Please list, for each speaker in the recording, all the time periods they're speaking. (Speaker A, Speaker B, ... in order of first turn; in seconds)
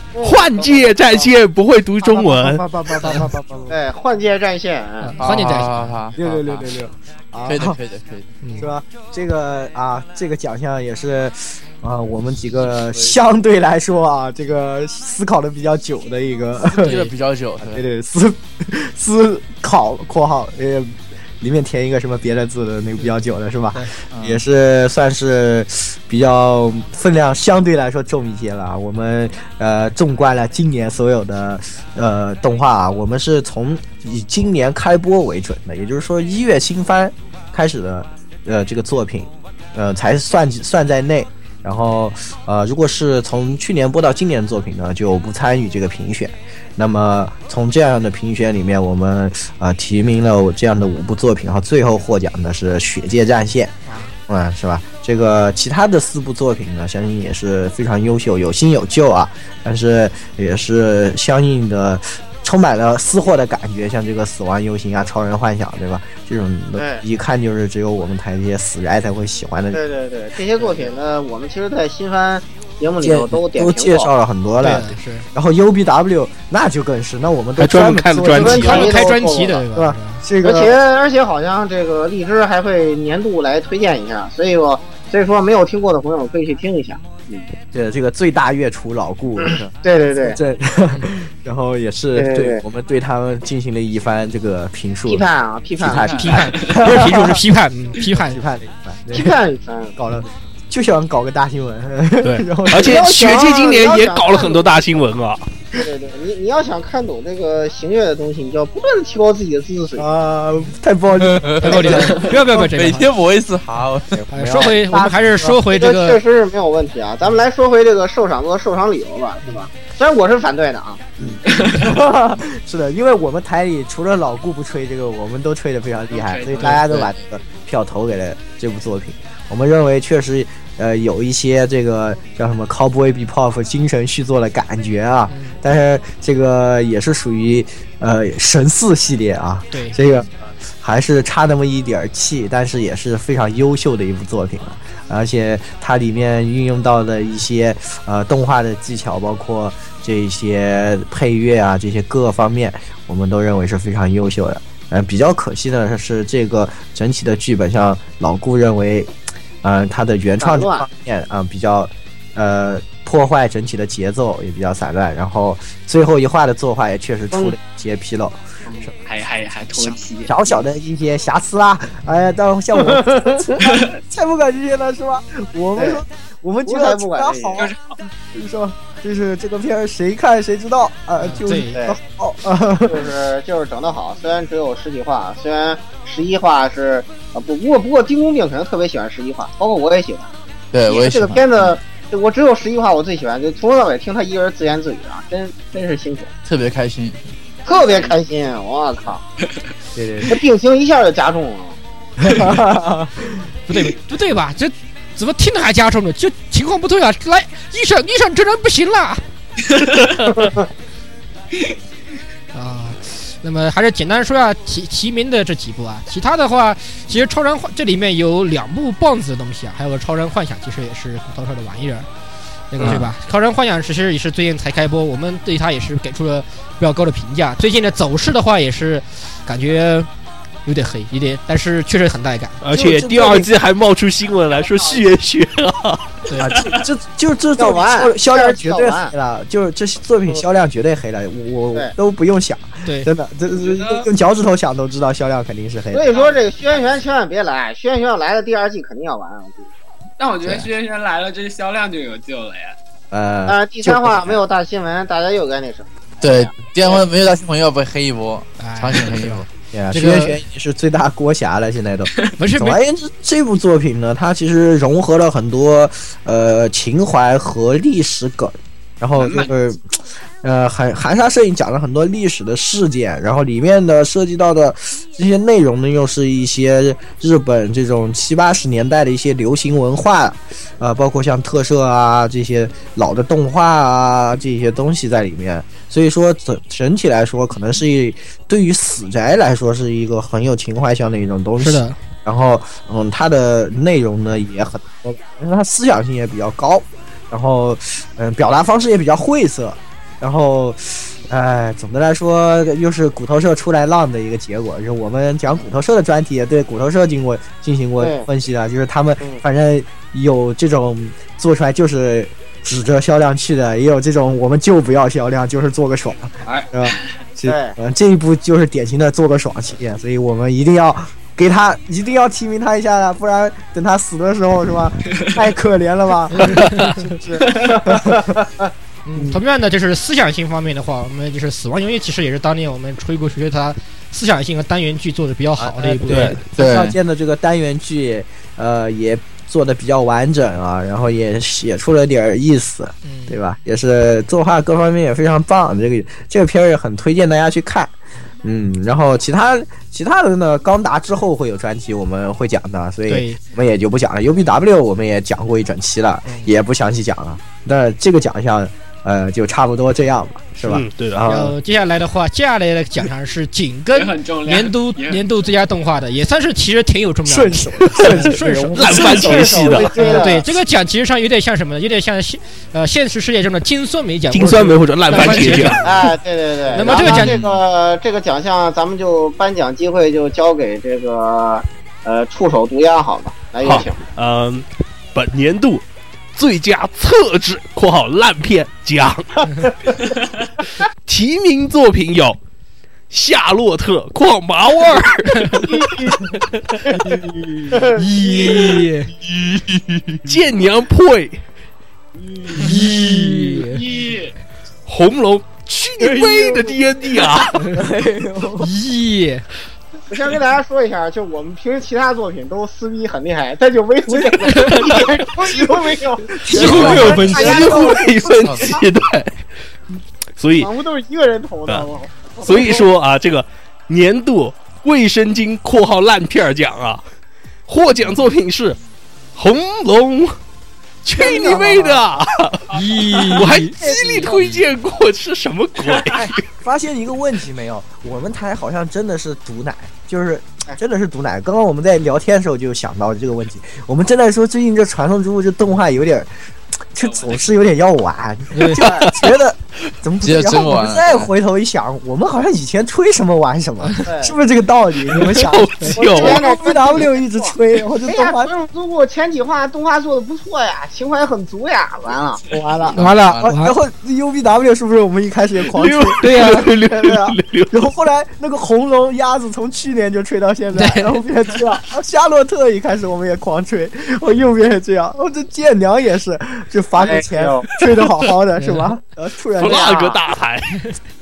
Speaker A: 0.1-1.3, 3.7-5.2, 66.8-67.0, 69.7-74.1, 78.4-79.7, 80.4-87.5, 89.4-90.4, 92.1-92.6, 95.0-96.8, 99.1-100.0, 102.7-105.0, 105.7-110.0, 115.7-121.0, 160.4-160.8, 175.8-176.0, 176.7-177.7, 182.8-190.3, 190.8-196.3, 197.7-199.2, 200.3-201.8, 210.3-210.7, 237.6-239.1, 245.9-249.7, 253.5-257.0, 308.0-308.3, 317.4-317.8, 327.6-328.7, 368.9-370.4, 375.8-384.0, 395.7-396.1, 397.7-398.0, 410.1-418.8, 420.6-422.9, 431.2-431.8, 448.8-449.1, 454.1-454.4, 456.0-462.4, 477.0-477.6, 479.6-480.2
Speaker B: 0.2-2.6, 77.6-78.9, 102.2-105.5, 232.6-236.2, 336.1-336.4, 360.6-361.2, 368.8-370.0, 374.3-375.8, 383.6-385.8, 386.3-389.7, 391.1-392.4, 393.1-396.1, 400.2-401.4, 404.9-407.6, 414.6-415.1, 416.6-419.4, 420.4-420.7, 422.4-427.0, 427.7-428.8, 429.4-430.4, 431.0-432.7, 433.3-436.4, 455.1-456.4, 465.7-467.7, 479.6-480.7
Speaker C: 2.0-3.8, 6.1-7.8, 8.6-17.0, 17.6-53.8, 54.3-69.8, 73.0-78.9, 79.7-80.8, 87.7-95.2, 95.8-97.4, 98.0-99.3, 100.0-103.0, 110.0-112.4, 114.1-115.6, 121.2-140.3, 140.8-168.9, 169.7-183.1, 199.9-200.4, 202.2-203.4, 232.7-233.5, 236.4-246.2, 253.1-254.4, 259.7-328.4, 335.6-361.5, 367.2-370.4, 397.1-397.9, 399.7-400.1, 402.5-403.5, 406.0-406.8, 407.6-408.7, 414.1-418.1, 431.1-432.0, 433.4-434.4, 436.1-446.3, 446.9-458.5, 462.5-480.0
Speaker D: 3.0-3.3, 5.0-6.0, 8.4-8.7, 16.8-17.1, 53.9-54.1, 74.6-75.3, 78.3-80.2, 96.2-98.4, 111.6-113.1, 114.3-116.2, 135.3-135.6, 139.7-140.2, 181.2-181.8, 203.7-209.2, 212.5-222.1, 222.7-230.1, 230.7-232.6, 236.3-236.6, 258.6-260.4, 262.4-262.8, 291.6-291.9, 326.3-327.1, 329.1-336.4, 343.0-343.4, 353.1-353.4, 361.3-369.0, 370.0-375.9, 376.7-377.4, 397.8-399.1, 402.6-403.8, 408.6-409.4, 416.5-417.4, 432.7-433.7, 448.5-448.8, 462.9-463.7, 466.2-466.7, 470.7-471.2, 478.6-478.9
Speaker E: 5.2-6.7, 7.5-8.4, 12.6-13.1, 16.7-17.8, 24.1-24.4, 95.8-96.3, 111.2-114.2, 126.6-127.2, 190.7-191.7, 196.4-197.2, 256.2-259.5, 336.6-336.9, 375.1-375.9, 376.9-377.6, 416.6-417.1, 418.4-418.8, 450.2-451.3, 462.9-463.6
Speaker F: 126.1-126.8, 168.7-170.6, 197.7-198.1, 234.5-235.0, 243.6-244.0, 250.2-252.8, 269.1-269.5, 316.4-317.0, 363.9-365.2, 403.6-404.3, 447.0-447.5